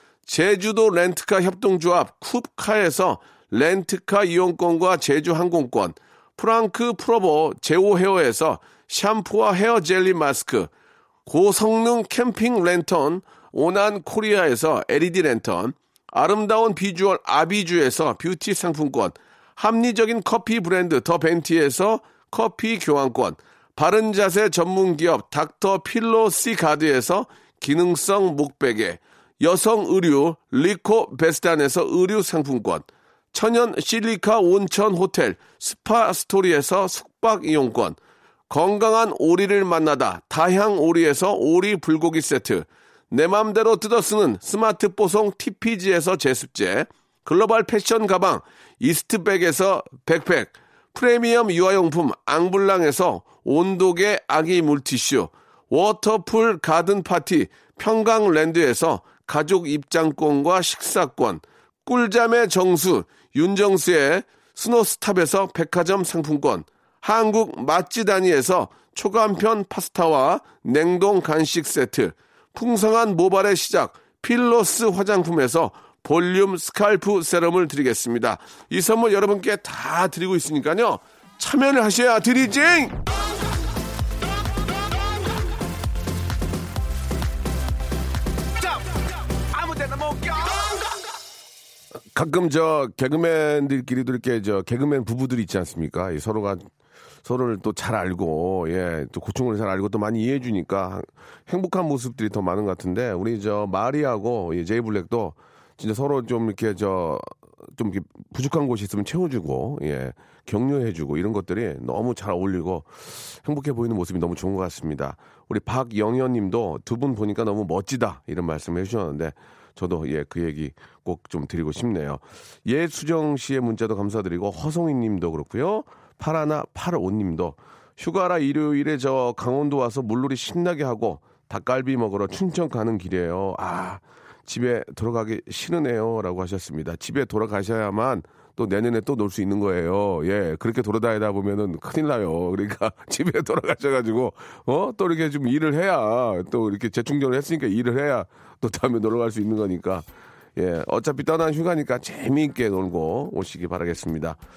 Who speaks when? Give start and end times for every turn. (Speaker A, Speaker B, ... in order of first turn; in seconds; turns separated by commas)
Speaker A: 0.3-10.7, Speaker A: 11.3-38.0, Speaker A: 38.5-83.0, Speaker A: 89.6-90.6, Speaker A: 92.1-96.7, Speaker A: 97.2-154.4